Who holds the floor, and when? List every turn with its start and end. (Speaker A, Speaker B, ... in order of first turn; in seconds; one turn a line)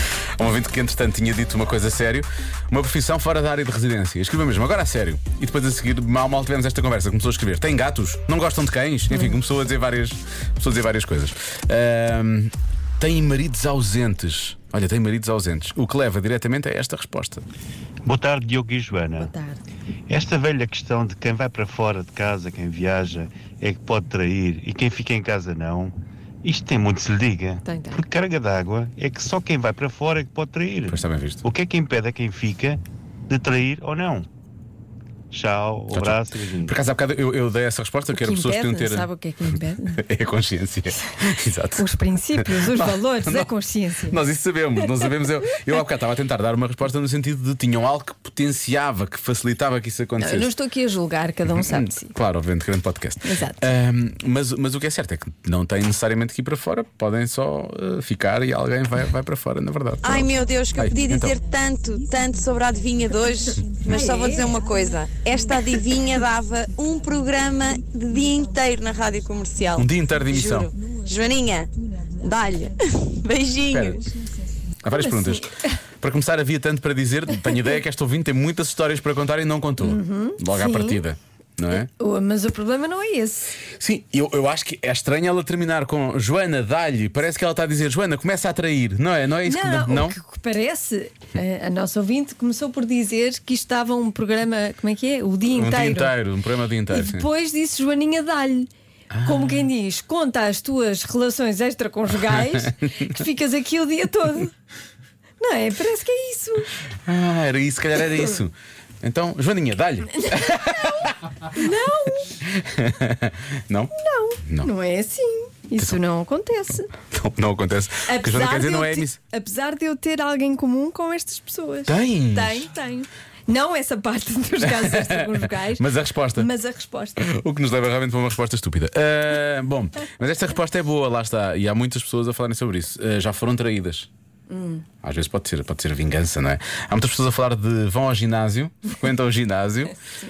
Speaker A: 0.4-17.4
Speaker B: 18.0-19.3
Speaker C: 19.1-19.6
Speaker B: 20.1-34.3
Speaker C: 27.6-28.1
Speaker A: 30.9-31.4
Speaker B: 35.3-36.7
Speaker A: 35.9-39.1
Speaker C: 38.1-40.0
Speaker A: 39.9-43.5
Speaker C: 41.8-44.2
Speaker A: 44.1-50.5
Speaker C: 50.2-52.1
Speaker A: 51.5-61.4
Speaker C: 53.2-53.6
Speaker D: 60.0-74.0
Speaker C: 63.9-64.5
Speaker A: 69.8-70.7
Speaker A: 73.7-74.0
Speaker A: 74.8-81.9
Speaker C: 74.9-75.7
Speaker C: 79.8-81.0
Speaker C: 81.7-83.5
Speaker A: 83.8-90.2
Speaker C: 89.5-96.1
Speaker A: 95.5-97.3
Speaker C: 96.9-98.7
Speaker A: 99.1-99.7
Speaker C: 99.2-104.5
Speaker A: 102.3-102.6
Speaker C: 105.4-106.7
Speaker A: 107.0-111.1
Speaker C: 110.3-112.3
Speaker A: 112.4-113.9
Speaker C: 113.9-116.9
Speaker A: 117.0-119.2
Speaker C: 118.0-127.3
Speaker A: 121.8-122.7
Speaker A: 124.6-126.5
Speaker A: 127.2-134.1
Speaker C: 134.5-134.8
Speaker A: 135.0-139.9